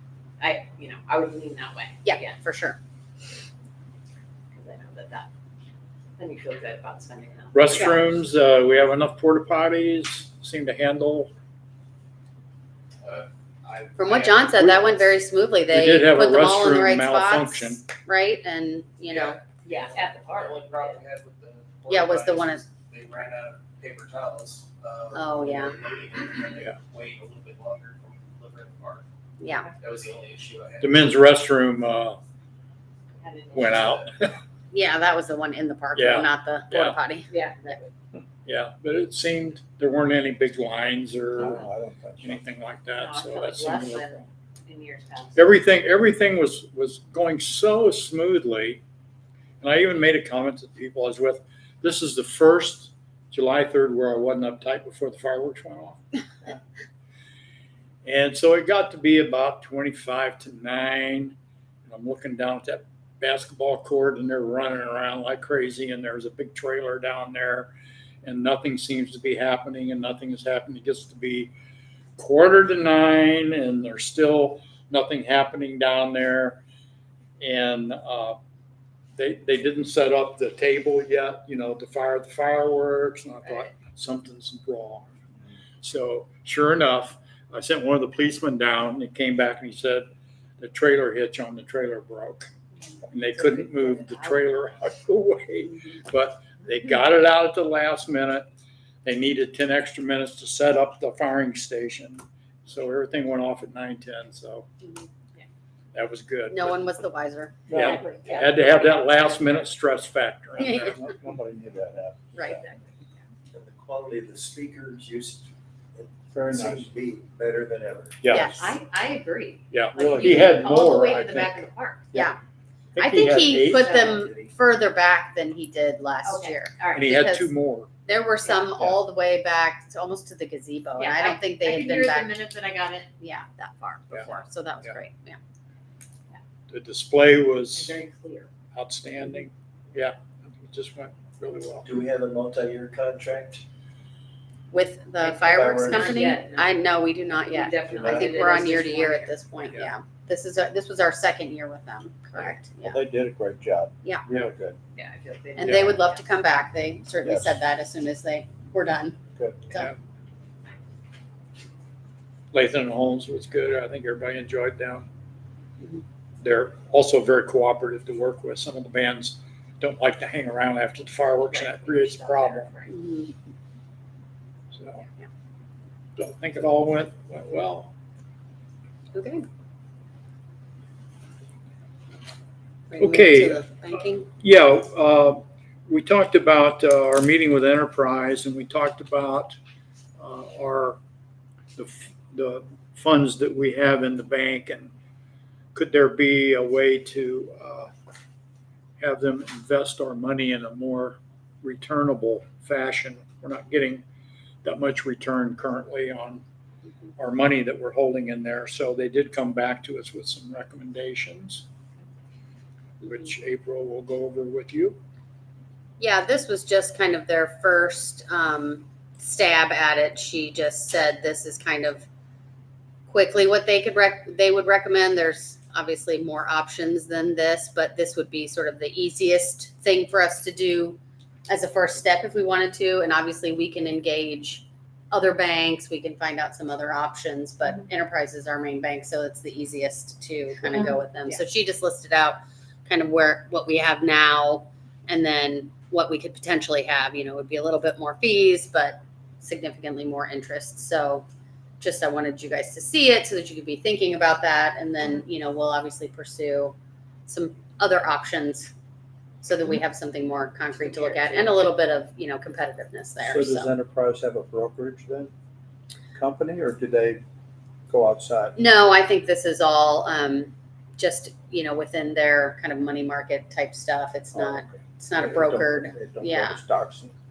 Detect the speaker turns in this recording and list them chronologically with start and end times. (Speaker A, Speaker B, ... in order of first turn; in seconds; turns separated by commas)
Speaker A: 0.4-2.4, Speaker B: 2.0-2.8, Speaker A: 4.5-5.3, Speaker A: 6.2-8.0, Speaker C: 7.5-11.3, Speaker D: 13.0-15.0, Speaker B: 14.0-19.4, Speaker C: 15.7-17.8, Speaker D: 19.1-29.1, Speaker A: 19.6-21.0, Speaker B: 21.9-22.6, Speaker B: 25.1-25.8, Speaker B: 29.4-29.7, Speaker D: 29.8-31.2, Speaker C: 30.8-32.2, Speaker A: 33.2-34.0, Speaker C: 33.5-34.4, Speaker B: 34.7-37.3, Speaker C: 36.0-37.0, Speaker A: 37.3-37.9, Speaker C: 38.5-41.6, Speaker E: 41.4-42.4, Speaker C: 42.2-44.1, Speaker A: 43.0-45.5, Speaker C: 45.4-48.8, Speaker C: 49.6-56.0, Speaker C: 58.0-61.4, Speaker C: 61.9-67.7, Speaker C: 68.2-71.5, Speaker C: 72.2-76.6, Speaker C: 77.4-78.4, Speaker C: 79.2-85.1, Speaker C: 85.8-90.1, Speaker C: 90.6-92.5, Speaker C: 93.1-98.5, Speaker A: 93.4-94.3, Speaker C: 99.0-104.7, Speaker C: 105.9-107.0, Speaker B: 106.5-107.6, Speaker E: 107.7-108.0, Speaker A: 107.7-109.4, Speaker C: 107.7-111.0, Speaker E: 110.6-112.7, Speaker B: 110.6-111.0, Speaker B: 112.3-112.6, Speaker F: 113.5-118.2, Speaker E: 116.3-116.9, Speaker C: 118.2-118.6, Speaker B: 118.3-118.7, Speaker A: 118.3-122.1, Speaker C: 119.7-122.3, Speaker B: 122.1-122.4, Speaker C: 123.0-124.0, Speaker B: 123.0-127.5, Speaker A: 123.8-124.2, Speaker F: 124.1-124.5, Speaker A: 126.2-127.1, Speaker C: 126.9-127.9, Speaker B: 128.1-132.4, Speaker A: 131.0-133.1, Speaker B: 133.2-135.4, Speaker C: 136.7-138.0, Speaker A: 137.7-138.5, Speaker C: 138.7-141.9, Speaker F: 141.8-143.6, Speaker B: 144.7-153.0, Speaker A: 145.2-146.8, Speaker F: 145.6-146.1, Speaker A: 147.4-149.3, Speaker E: 152.8-154.8, Speaker A: 154.9-156.2, Speaker B: 155.6-159.9, Speaker C: 155.6-155.9, Speaker E: 157.2-157.5, Speaker C: 162.5-165.1, Speaker C: 166.4-172.7, Speaker A: 171.3-173.0, Speaker B: 172.9-173.3, Speaker C: 174.7-175.0, Speaker C: 176.2-177.9, Speaker B: 179.1-179.5, Speaker B: 182.9-184.3, Speaker C: 183.0-183.7, Speaker C: 184.4-189.6, Speaker C: 190.2-191.0, Speaker C: 191.8-194.9, Speaker C: 195.7-197.9, Speaker C: 199.0-204.1, Speaker C: 204.6-206.4, Speaker C: 207.2-211.7, Speaker C: 213.0-215.0, Speaker B: 216.0-222.1, Speaker B: 223.1-251.2, Speaker B: 251.8-256.8, Speaker B: 257.3-258.7, Speaker B: 259.4-263.7, Speaker A: 260.8-261.6, Speaker E: 263.2-265.3, Speaker E: 266.2-267.2, Speaker E: 267.9-268.6, Speaker B: 268.6-276.6, Speaker E: 274.3-274.6, Speaker E: 275.2-277.1